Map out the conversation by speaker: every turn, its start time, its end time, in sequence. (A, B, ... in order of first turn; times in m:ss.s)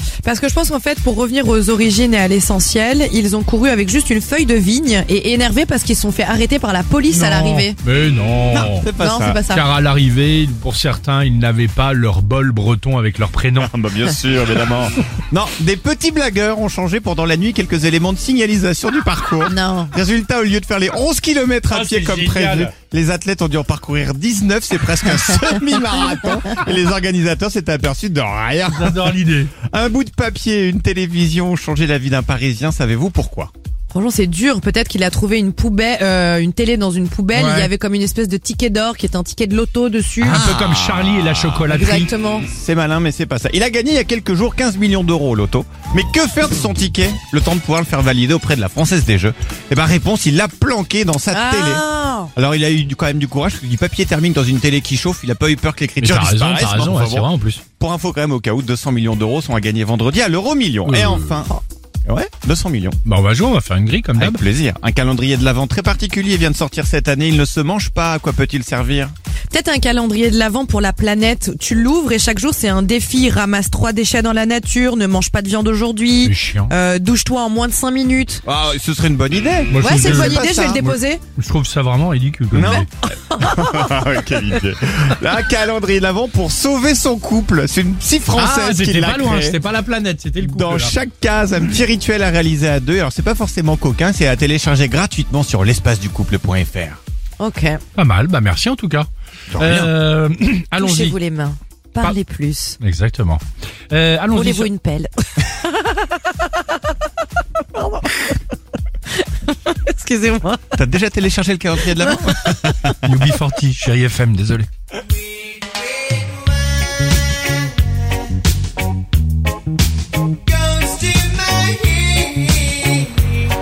0:00.2-0:07.8 A
0:07.2-0:08.8 B
0:08.5-0:09.4 C
0:09.0-0:09.6 A
0:09.5-0:13.7 B
0:13.6-0:29.1 C
0:19.4-0:19.9 A
0:21.7-0:22.7 B
0:28.7-0:29.5 B
0:29.7-0:33.5 C
0:33.9-0:40.4 A
0:37.3-0:37.7 B
0:40.2-0:42.1 B
0:40.3-0:41.6 C
0:41.7-0:42.4 A
0:42.4-0:57.3 C
0:51.3-0:52.3 A
0:56.0-0:57.6 B
0:57.8-1:01.5 C
1:00.8-1:01.4 B
1:02.1-1:03.0 C
1:03.0-1:04.4 B
1:04.2-1:09.1 C
1:09.5-1:18.4 A
1:16.2-1:16.7 B
1:18.4-1:20.9 C
1:19.7-1:22.9 B
1:19.8-1:21.2 A
1:22.5-1:29.6 C
1:23.3-1:24.1 A
1:28.3-1:31.0 B
1:30.4-1:37.0 C
1:37.4-1:37.8 A
1:38.0-1:39.1 B
1:39.5-1:39.9 C
1:39.6-1:41.2 B
1:40.8-1:42.8 A
1:42.8-1:44.7 B
1:44.3-1:46.5 A
1:47.7-1:48.3 A
1:49.1-1:50.8 A
1:50.7-1:53.0 C
1:52.0-1:52.5 A
1:53.0-1:54.7 B